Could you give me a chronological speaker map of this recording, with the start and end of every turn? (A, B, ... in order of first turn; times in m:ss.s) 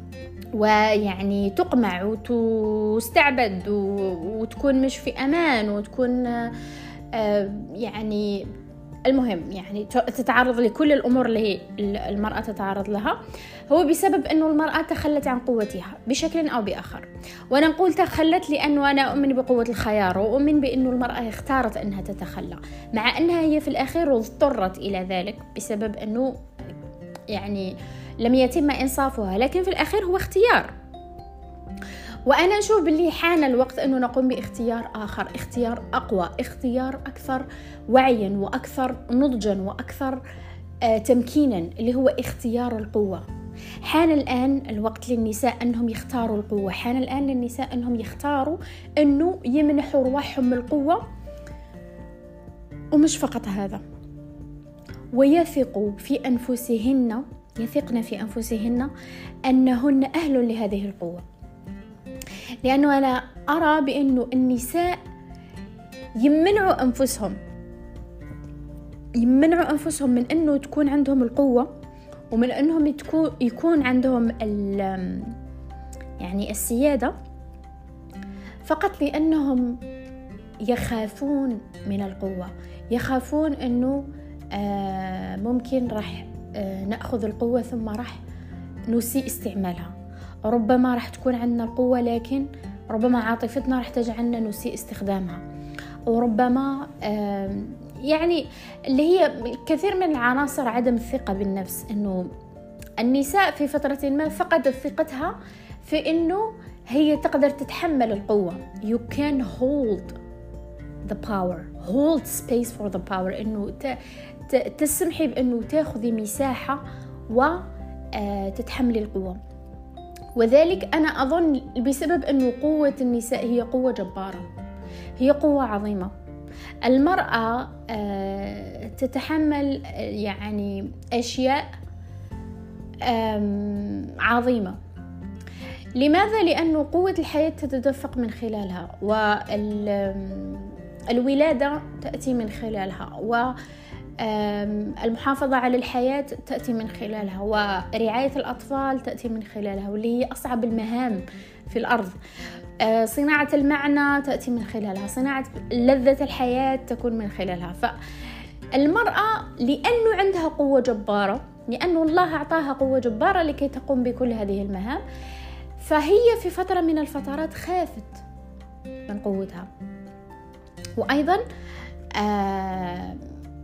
0:00.6-0:06.6 A
0:07.1-0:08.5 A
0:09.1-0:13.2 A
0:13.7-0:26.3 A
0:27.3-0:30.7 A
0:32.3-0:40.2 A
0:40.8-0:43.2 A
0:43.8-0:51.0 A
0:52.9-0:53.8 A
0:55.2-0:58.9 A
0:59.5-1:01.2 A
1:02.6-1:05.0 A
1:06.2-1:07.4 A
1:09.2-1:11.7 A
1:12.3-1:15.3 A
1:16.2-1:17.1 A
1:18.7-1:19.8 A
1:20.7-1:24.0 A
1:24.5-1:28.2 A
1:28.9-1:29.9 A
1:30.4-1:35.4 A
1:36.1-1:42.3 A
1:43.0-1:50.2 A
1:51.1-1:54.0 A
1:54.5-1:59.4 A
2:00.4-2:04.5 A
2:05.2-2:06.1 A
2:06.8-2:11.7 A
2:13.0-2:14.8 A
2:16.0-2:23.6 A
2:24.2-2:32.2 A
2:32.8-2:38.0 A
2:38.7-2:45.0 A
2:45.8-2:48.2 A
2:49.1-2:49.7 A
2:51.0-2:51.4 A
2:52.2-2:53.2 A